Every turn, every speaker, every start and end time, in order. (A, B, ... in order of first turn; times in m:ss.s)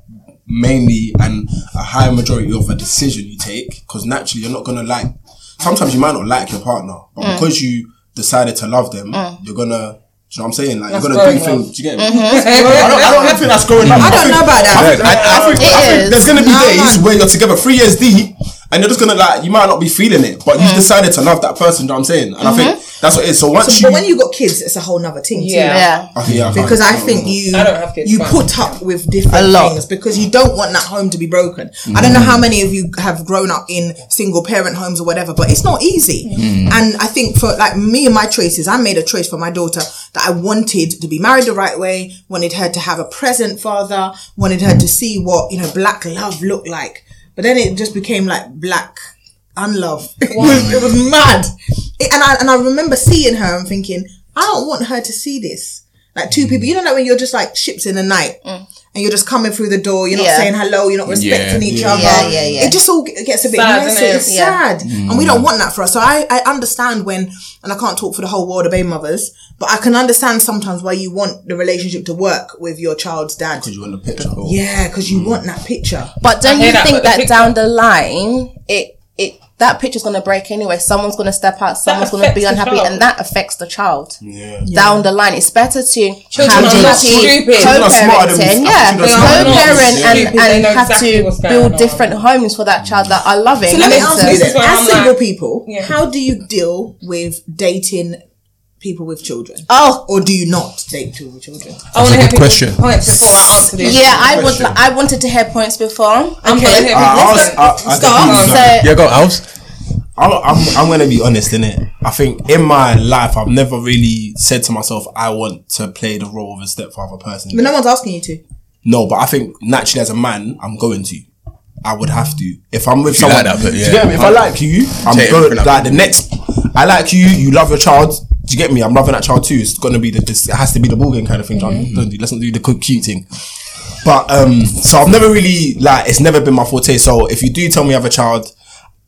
0:00.4-0:24.0 A
0:07.2-0:07.5 B
0:09.1-0:09.4 B
0:10.9-0:13.6 C
0:12.0-0:13.0 B
0:13.8-0:16.0 D
0:13.9-0:15.6 E
0:15.6-0:16.3 B
0:16.3-0:17.0 E
0:20.6-0:20.9 B
0:22.4-0:22.8 B
0:23.6-0:25.9 E
0:25.3-0:25.9 C
0:25.7-0:26.1 B
0:26.1-0:27.4 A
0:26.5-0:49.0 E
0:27.5-0:28.8 C
0:29.3-0:29.8 B
0:31.9-0:32.4 D
0:36.4-0:36.8 D
0:49.6-0:58.4 E
0:50.3-0:50.8 C
0:50.4-0:50.7 D
0:58.9-1:13.7 E
1:00.1-1:00.5 B
1:01.1-1:01.7 D
1:01.6-1:02.5 A
1:01.9-1:02.8 B
1:03.5-1:04.4 C
1:04.2-1:04.6 B
1:04.8-1:05.4 D
1:13.6-1:14.6 A
1:14.2-1:16.1 E
1:16.2-1:34.4 B
1:16.4-1:17.5 C
1:21.8-1:23.0 C
1:24.2-1:24.6 A
1:24.6-1:25.0 E
1:26.3-1:27.9 C
1:26.4-1:30.4 A
1:29.0-1:32.1 C
1:33.6-1:38.2 E
1:33.8-1:35.9 C
1:38.8-1:41.9 E
1:39.7-1:40.0 B
1:41.9-1:44.5 C
1:42.0-1:43.6 D
1:43.8-1:48.9 B
1:44.2-1:44.8 A
1:46.4-1:48.7 C
1:46.9-1:49.0 A
1:48.8-1:49.4 D
1:50.2-1:57.7 A
1:57.5-1:58.4 E
1:58.8-2:01.3 A
2:01.8-2:13.2 A
2:03.1-2:06.1 D
2:14.0-2:18.5 A